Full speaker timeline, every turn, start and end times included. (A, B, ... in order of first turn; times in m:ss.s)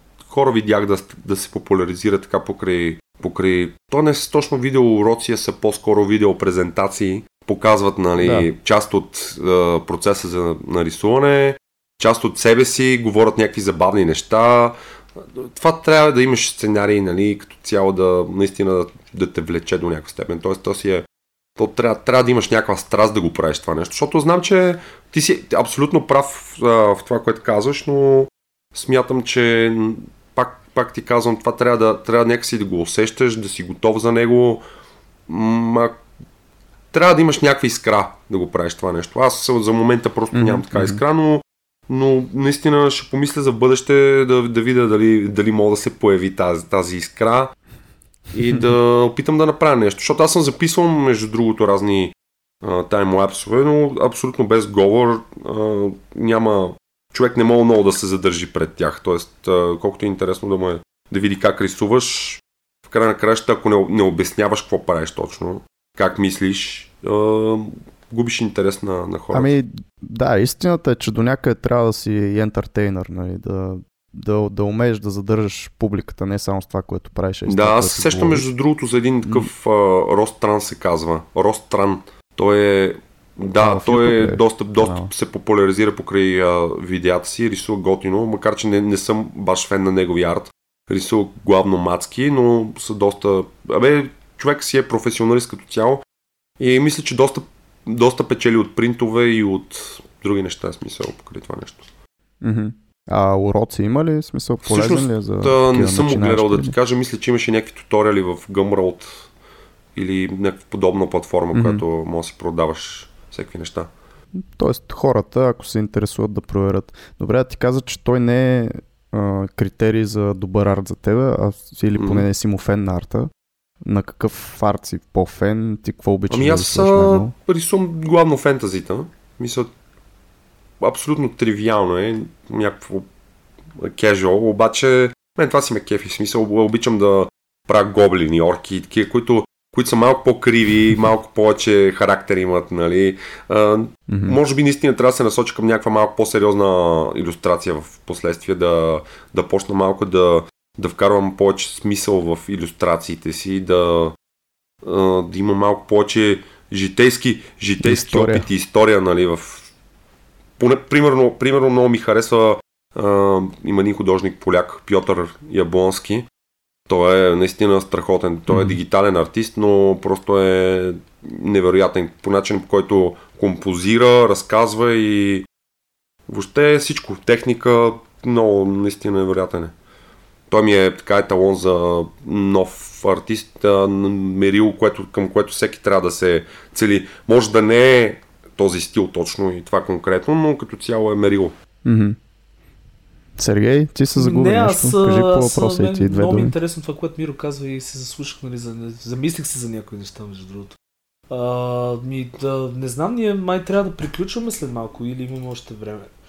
0:00.3-0:21.1 A
0:08.2-0:08.5 B
0:21.6-0:34.6 A
0:35.3-0:36.0 A
0:36.9-0:47.5 A
0:40.3-0:41.0 B
0:48.3-1:09.5 A
1:09.3-1:18.5 B
1:17.5-1:36.0 A
1:19.2-1:19.5 B
1:23.6-1:25.1 B
1:36.6-1:41.9 A
1:42.4-1:46.8 B
1:44.6-1:49.3 A
1:50.0-1:53.9 A
1:51.5-1:51.8 B
1:54.4-2:03.3 B
2:02.0-2:02.3 A
2:03.8-2:07.3 B
2:06.3-2:09.7 A
2:10.8-2:13.1 A
2:13.8-2:34.2 A
2:24.1-2:24.4 B
2:34.8-2:39.7 A
2:37.8-2:38.5 B
2:40.6-2:46.3 A
2:46.9-2:55.5 A
2:48.5-2:48.8 B
2:56.3-2:59.7 A
3:00.5-3:11.5 A
3:11.8-3:12.2 B
3:13.4-3:16.6 B
3:14.2-3:20.8 C
3:21.3-3:26.1 C